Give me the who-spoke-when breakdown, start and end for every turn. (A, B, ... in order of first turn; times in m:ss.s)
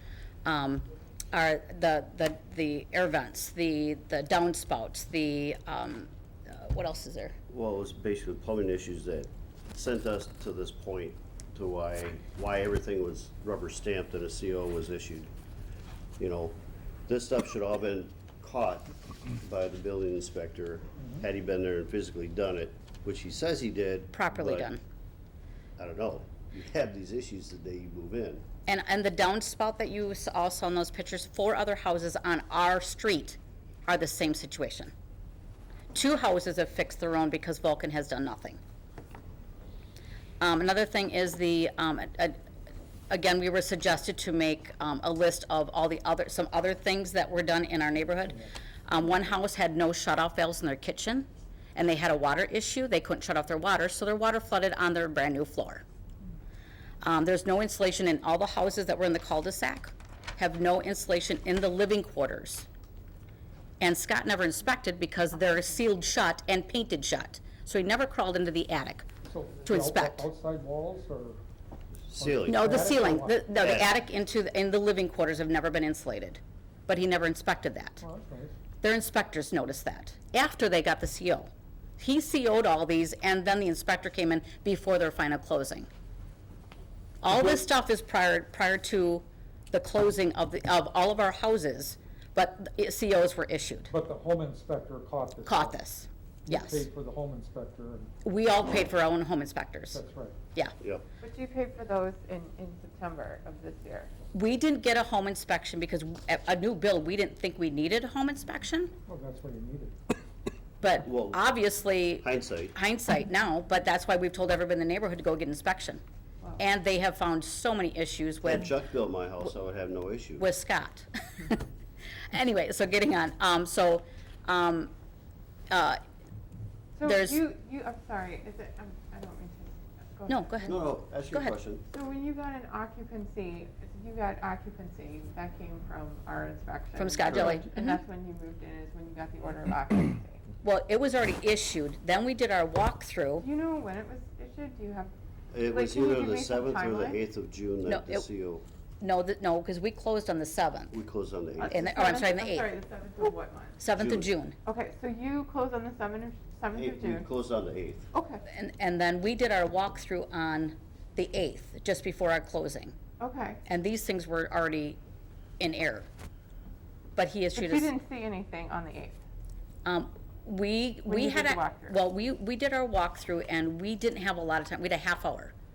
0:00.4-0:07.4 A
0:07.5-0:15.3 B
0:16.2-0:24.7 B
0:24.1-0:24.8 A
0:25.8-0:28.4 B
0:28.7-0:34.9 A
0:35.9-0:38.6 A
0:40.4-0:42.4 A
0:43.1-0:55.8 A
0:57.0-1:02.7 A
1:03.8-1:09.1 A
1:09.3-1:11.4 C
1:09.6-1:10.3 A
1:12.1-1:12.7 B
1:12.2-1:13.4 C
1:12.5-1:18.0 A
1:13.6-1:13.9 B
1:18.0-1:18.6 C
1:18.8-1:25.9 A
1:27.2-1:33.9 A
1:33.9-1:35.8 C
1:35.4-1:36.9 A
1:36.4-1:38.1 C
1:38.2-1:40.0 A
1:39.9-1:40.4 C
1:41.2-1:44.1 D
1:44.3-1:48.9 A
1:49.1-1:50.0 C
1:50.8-1:56.0 A
1:51.0-1:51.4 B
1:52.2-1:52.7 B
1:56.6-1:58.7 A
1:58.4-2:00.5 B
2:00.4-2:01.7 A
2:02.3-2:04.9 A
2:05.7-2:06.0 A
2:07.0-2:10.8 D
2:07.0-2:07.4 A
2:10.3-2:10.8 A
2:10.7-2:11.8 B
2:11.9-2:20.4 D
2:17.0-2:18.0 A
2:17.3-2:17.6 B
2:20.6-2:23.4 A
2:23.4-2:25.1 D
2:25.5-2:28.6 B
2:25.7-2:27.2 D
2:27.8-2:28.2 A
2:29.0-2:30.9 A
2:30.9-2:31.8 B
2:31.6-2:33.8 D
2:31.7-2:32.7 A
2:33.8-2:34.6 A
2:34.0-2:34.3 B
2:34.6-2:37.3 D
2:36.8-2:38.1 B
2:38.1-2:38.4 D
2:38.5-2:42.9 A
2:43.2-2:43.6 D
2:43.6-2:45.0 A
2:45.6-2:46.1 A
2:47.2-2:47.9 A
2:47.6-2:49.2 D
2:49.8-2:55.5 A
2:51.1-2:52.0 D